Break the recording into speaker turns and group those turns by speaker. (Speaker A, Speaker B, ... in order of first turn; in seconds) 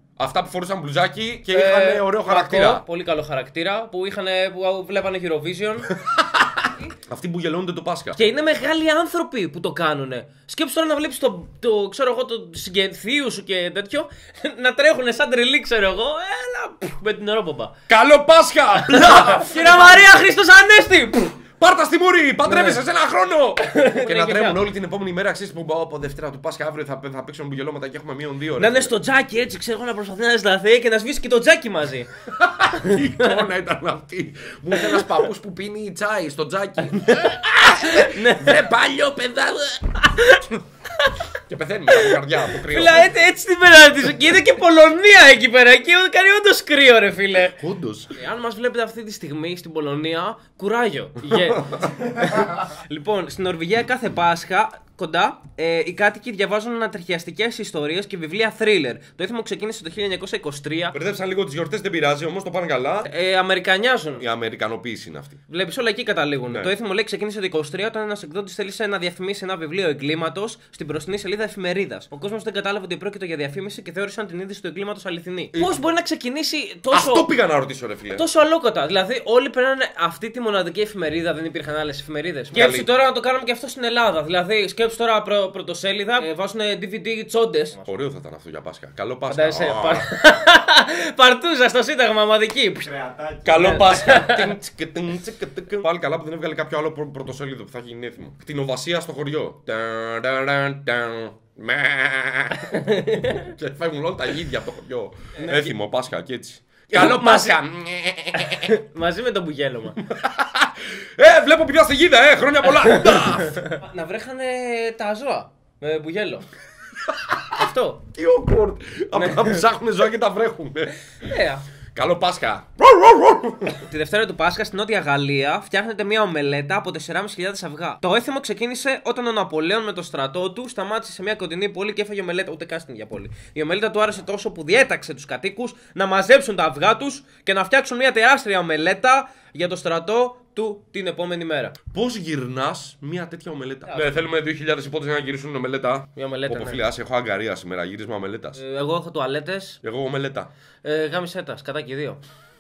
Speaker A: 0.2-2.8, 6.1-6.5, 7.0-8.2, 17.9-20.0, 21.6-28.9, 32.3-40.6, 41.4-43.1, 47.6-48.1, 51.2-51.9, 60.9-63.1, 64.2-65.4, 66.5-66.7, 76.9-78.2, 82.5-82.9, 87.8-90.1, 93.4-108.8, 110.0-113.7, 117.1-121.0, 121.9-123.8, 141.9-148.6, 149.8-150.5
Speaker B: 1.5-6.0, 8.2-17.8, 18.9-21.4, 22.4-22.8, 23.6-24.6, 28.6-32.1, 32.8-33.3, 37.0-38.7, 39.9-41.2, 41.9-47.6, 48.1-61.0, 63.1-64.2, 65.5-77.3, 78.1-87.9, 89.3-94.5, 102.7-103.5, 105.3-105.7, 106.9-107.5, 108.3-110.0, 113.5-116.5, 117.5-118.0, 119.1-119.7, 121.2-121.7, 123.7-141.7, 146.2-146.8, 148.6-149.8, 150.8-152.2